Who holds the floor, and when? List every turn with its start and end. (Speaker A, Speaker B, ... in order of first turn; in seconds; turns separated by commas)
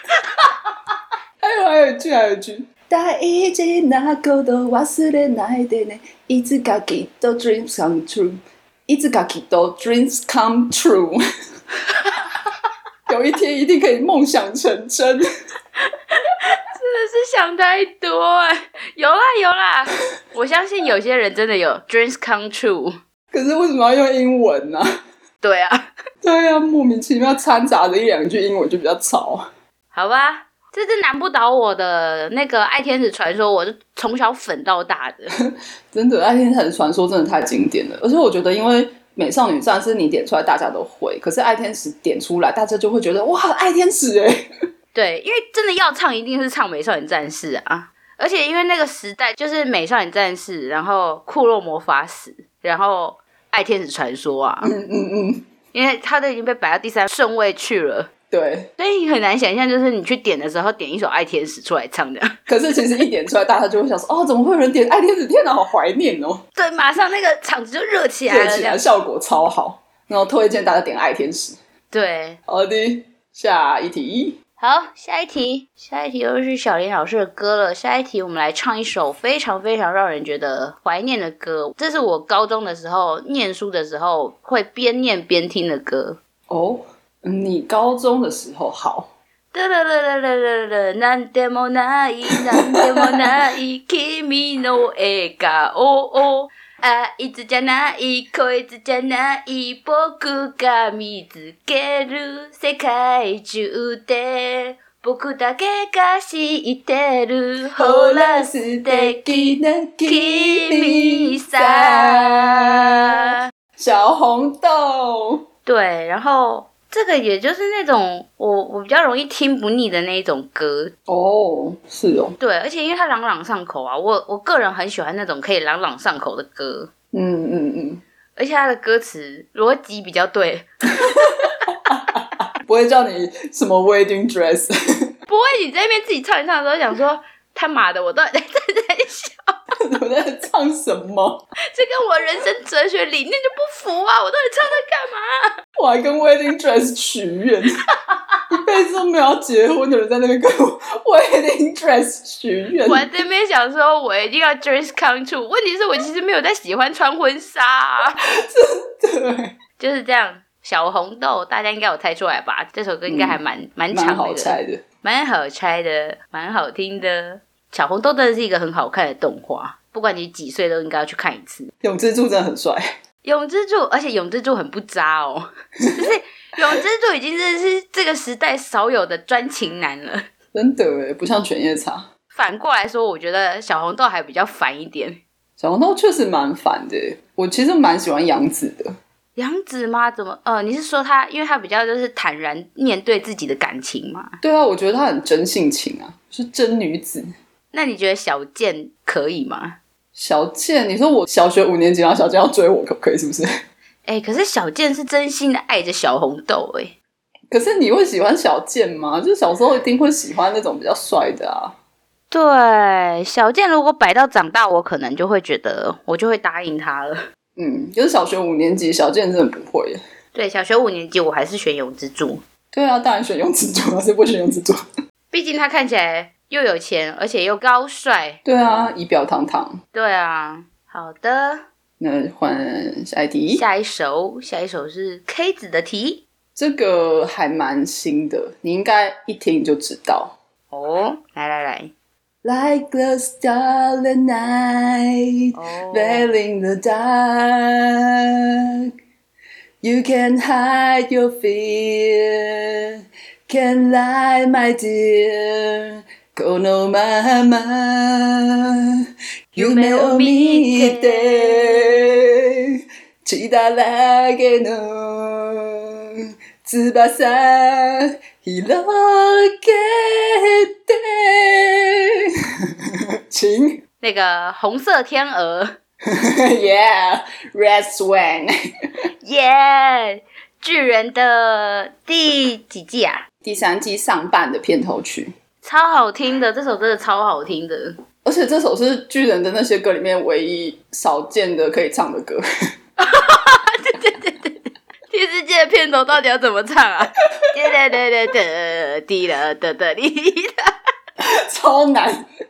Speaker A: 1.4-11.2, Speaker A: 13.1-15.3, Speaker B: 16.1-22.9, Speaker A: 23.3-24.9, Speaker B: 25.4-25.9, Speaker A: 26.2-29.5, Speaker B: 29.9-35.3, Speaker A: 35.4-44.5, Speaker B: 44.9-54.7, Speaker A: 54.6-55.4, Speaker B: 55.7-58.1, Speaker A: 58.3-58.7, Speaker B: 58.8-62.4, Speaker A: 62.5-66.4, Speaker B: 66.5-68.8, Speaker A: 68.3-71.6, Speaker B: 71.9-72.4, Speaker A: 72.5-74.4, Speaker B: 74.6-86.2, Speaker A: 86.5-89.1, Speaker B: 89.5-113.4, Speaker A: 92.3-93.3, Speaker A: 107.7-113.0, Speaker A: 113.8-115.4, Speaker B: 115.7-120.9, Speaker A: 121.1-122.4, Speaker B: 122.4-126.9, Speaker A: 127.1-128.0, Speaker B: 128.4-131.5, Speaker A: 131.1-135.1, Speaker B: 135.3-139.5, Speaker A: 139.8-141.4, Speaker B: 141.7-145.5, Speaker A: 145.8-147.8, Speaker A: 148.5-153.1, Speaker B: 152.8-158.2, Speaker A: 158.2-159.5, Speaker B: 159.8-171.7, Speaker A: 163.1-163.4, Speaker A: 163.9-164.8, Speaker A: 171.8-172.9, Speaker B: 173.2-180.2, Speaker A: 180.5-182.1, Speaker B: 182.3-185.2, Speaker A: 185.6-188.9, Speaker B: 189.3-194.4, Speaker A: 194.4-197.3, Speaker B: 197.7-199.8, Speaker A: 200.2-203.5, Speaker B: 204.1-206.9, Speaker A: 207.5-211.7, Speaker B: 212.3-217.2, Speaker A: 217.6-220.0, Speaker B: 220.3-222.4, Speaker A: 222.7-224.8, Speaker B: 225.3-228.4, Speaker A: 228.4-229.8, Speaker B: 229.9-231.6, Speaker A: 232.0-233.6, Speaker B: 233.5-236.2, Speaker A: 236.6-240.3, Speaker B: 240.7-241.9, Speaker A: 242.4-248.7, Speaker B: 245.5-246.3, Speaker A: 249.8-259.0, Speaker B: 259.6-262.0, Speaker A: 259.6-273.8, Speaker B: 274.0-275.8, Speaker A: 276.1-278.5, Speaker B: 279.2-283.2, Speaker A: 283.4-285.3, Speaker B: 285.6-287.9, Speaker A: 288.2-292.4, Speaker B: 293.0-300.7, Speaker A: 301.2-302.2